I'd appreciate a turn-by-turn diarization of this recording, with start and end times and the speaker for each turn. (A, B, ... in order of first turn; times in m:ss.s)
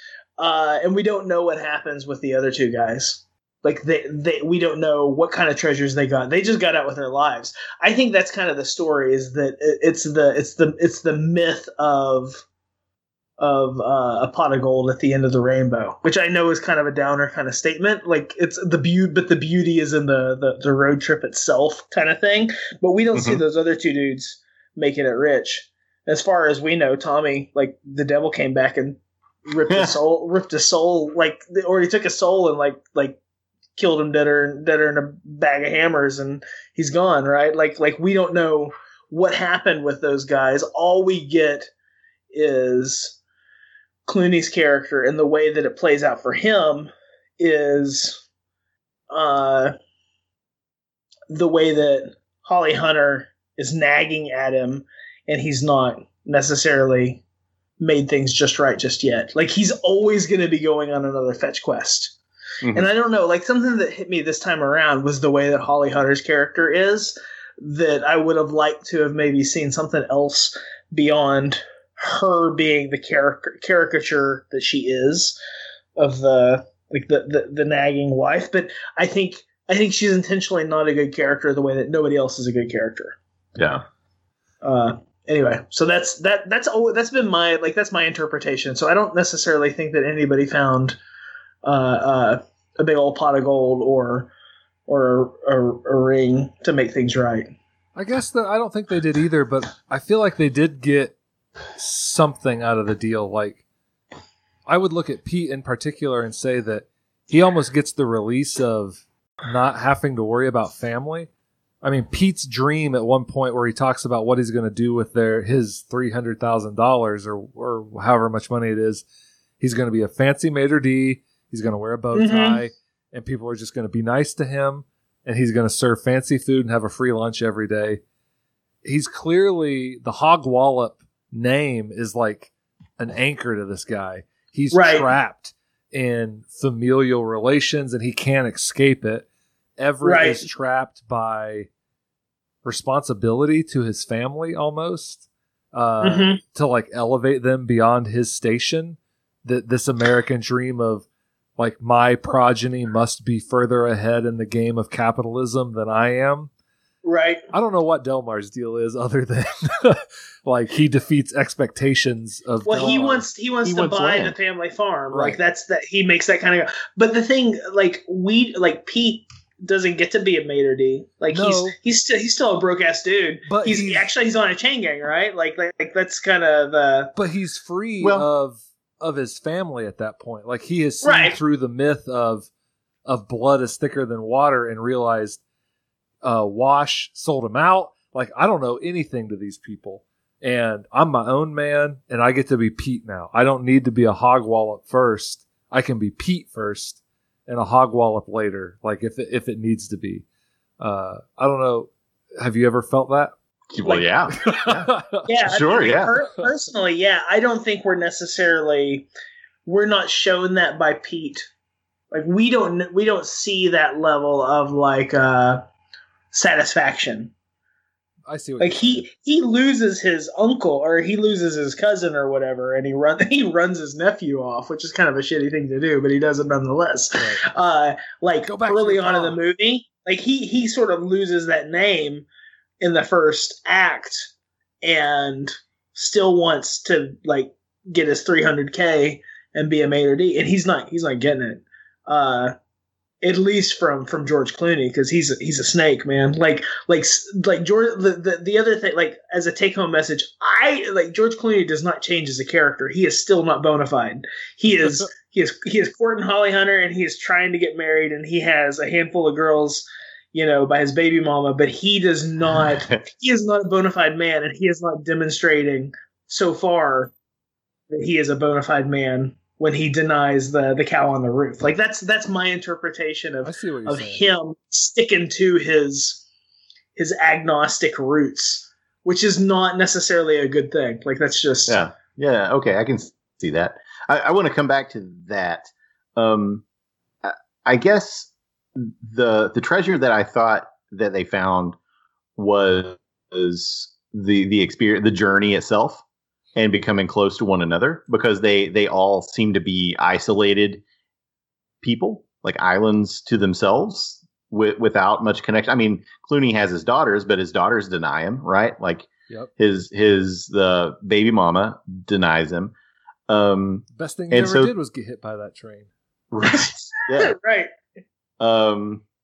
0:00.4-0:12.4 A
0:13.4-0:33.2 A
0:23.1-0:23.4 B
0:33.8-0:41.7 A
0:42.3-0:43.2 A
0:44.1-0:48.2 A
0:49.1-0:49.7 A
0:51.3-0:57.2 A
0:57.8-1:02.2 A
1:02.6-1:02.9 B
1:02.7-1:15.4 A
1:16.0-1:23.2 A
1:23.6-1:23.8 B
1:24.6-1:31.0 A
1:31.6-1:34.3 A
1:34.9-1:37.5 A
1:38.0-1:41.2 C
1:41.8-1:43.6 C
1:44.7-1:51.3 C
1:51.8-1:59.0 C
1:59.6-2:08.0 C
2:02.2-2:02.6 A
2:08.8-2:19.3 C
2:14.7-2:15.1 A
2:19.8-2:21.7 C
2:20.0-2:20.5 A
2:22.6-2:31.1 C
2:26.0-2:26.4 A
2:31.6-2:36.5 C
2:37.0-2:37.4 A
2:37.5-2:43.3 C
2:42.7-2:57.1 A
2:43.6-2:44.3 B
2:45.1-2:45.4 C
2:51.3-2:51.7 C
2:53.5-2:54.1 C
2:57.2-3:02.5 C
2:58.0-2:58.3 B
3:01.0-3:01.4 A
3:03.0-3:05.4 C
3:06.2-3:20.2 C
3:20.8-3:23.3 C
3:23.7-3:24.9 B
3:24.5-3:25.2 C
3:25.3-3:29.1 A
3:25.5-3:26.1 B
3:29.7-3:31.5 A
3:32.1-3:35.6 A
3:36.3-3:37.3 A
3:38.3-3:39.1 C
3:38.6-3:52.3 A
3:48.5-3:49.4 C
3:52.8-3:54.3 A
3:54.8-4:02.5 A
4:03.2-4:27.1 A
4:27.9-4:36.2 A
4:33.4-4:34.2 C
4:37.0-4:41.8 A
4:41.7-4:46.6 B
4:47.2-4:51.8 B
4:52.4-4:56.0 B
4:56.6-5:00.8 B
5:01.8-5:12.7 B
5:13.3-5:14.7 B
5:14.0-5:15.9 C
5:16.3-5:17.4 B
5:16.5-5:17.7 A
5:18.4-5:19.0 B